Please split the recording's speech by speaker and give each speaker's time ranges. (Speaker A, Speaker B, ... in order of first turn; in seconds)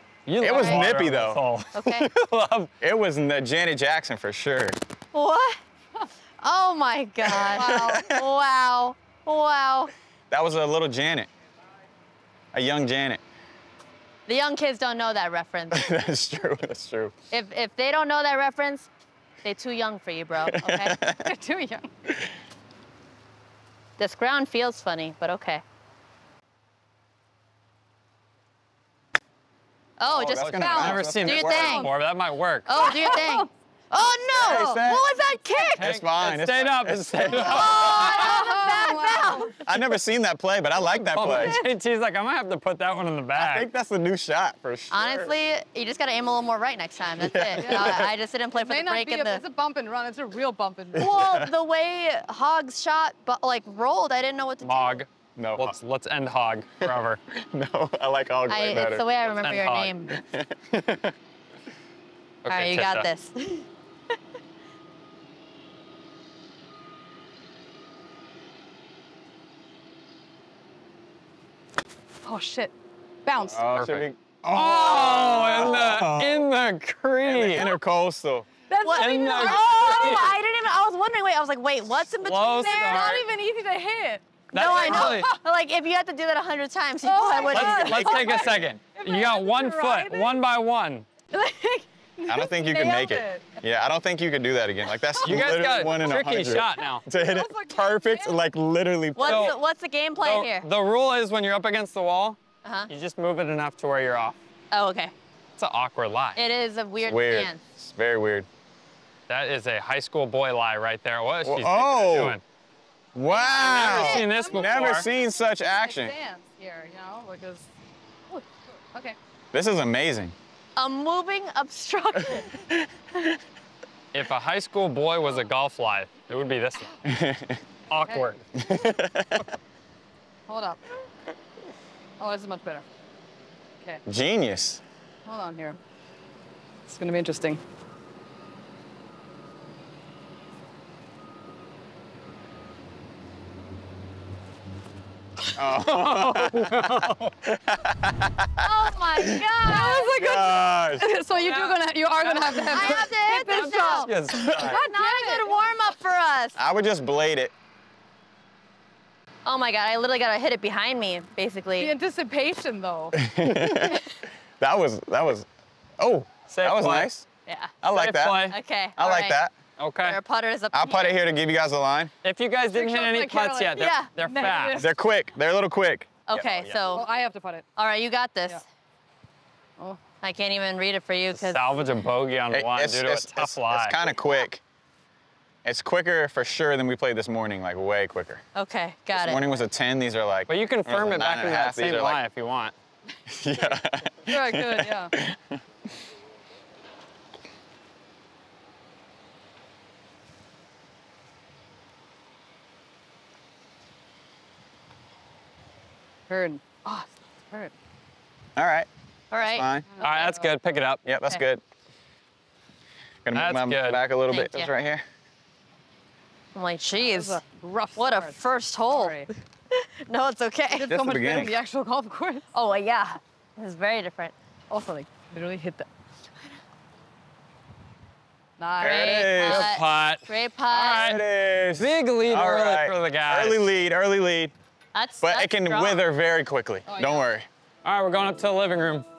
Speaker A: 0.2-2.7, 30.4-32.7, 35.8-38.4, 40.9-43.7, 54.6-57.2, 59.3-60.0, 62.4-63.1, 73.7-77.7, 78.9-80.3, 82.1-83.3, 84.5-85.3, 87.5-91.1, 95.2-97.0, 99.2-99.6, 100.2-104.4, 105.6-106.4, 109.3-112.4, 113.6-115.1, 124.1-126.9, 127.9-128.4, 145.8-147.3, 151.3-154.7, 166.5-167.1, 167.9-168.6, 169.8-170.2, 172.2-174.9, 181.3-184.0, 190.5-192.7, 210.0-211.0, 213.3-214.0, 229.4-231.2, 231.8-233.7, 237.8-239.1
Speaker B: 0.4-1.4, 2.8-4.8, 7.2-8.2, 10.3-11.3, 12.5-13.2, 15.7-17.1, 20.4-21.3, 22.1-22.3, 30.1-31.9, 34.3-35.0, 35.7-38.0, 39.6-41.6, 43.4-45.3, 47.2-48.1, 50.9-51.5, 55.4-55.8, 56.8-59.1, 60.1-61.1, 73.4-76.5, 77.2-78.5, 92.2-99.5, 107.0-108.5, 111.4-112.4, 113.1-116.2, 119.5-120.3, 122.2-123.2, 127.0-127.6, 128.6-129.5, 134.1-134.8, 145.5-149.4, 150.2-151.1, 154.3-154.8, 156.6-157.5, 163.1-165.5, 166.0-167.2, 167.8-168.4, 169.0-169.5, 170.7-172.1, 174.8-176.8, 182.5-184.6, 185.6-188.4, 189.1-192.2, 193.3-195.6, 208.6-209.8, 211.0-211.6, 213.2-215.0, 220.9-221.6, 228.8-229.8, 230.7-234.5, 235.2-237.5
Speaker C: 0.5-0.8, 1.7-2.1, 5.1-5.6, 6.4-9.9, 14.3-15.9, 17.3-18.9, 19.4-20.9, 24.0-25.6, 30.0-31.9, 32.7-35.9, 37.4-39.5, 44.9-49.4, 51.0-55.0, 58.5-60.2, 62.5-63.7, 78.7-83.1, 84.5-88.4, 99.1-100.6, 102.6-102.9, 104.7-105.1, 106.3-107.6, 120.8-122.6, 148.6-150.2, 152.7-156.6, 159.4-161.9, 167.4-167.7, 168.5-169.4, 170.0-171.2, 173.8-174.1, 176.3-177.1, 177.8-178.6, 180.2-181.7, 188.5-189.4, 209.3-209.7, 214.3-214.7, 216.5-217.4, 217.9-220.9, 222.5-224.3, 228.8-231.2, 234.9-236.0
Speaker D: 7.5-8.1, 21.2-21.9, 30.6-31.9, 32.8-33.5, 37.7-39.5, 41.3-41.7, 47.6-51.1, 72.2-72.7, 73.2-73.6, 78.7-80.3, 82.5-85.4, 87.0-90.4, 91.3-93.6, 95.1-98.4, 113.3-117.7, 118.3-119.2, 130.5-130.8, 132.2-132.8, 135.2-135.8, 136.9-137.6, 149.6-155.6, 161.8-164.0, 172.7-175.0, 176.9-177.7, 194.2-195.1, 206.3-207.7, 209.9-210.5, 217.0-219.3, 220.7-222.5, 224.7-225.9, 228.6-229.4, 236.9-237.2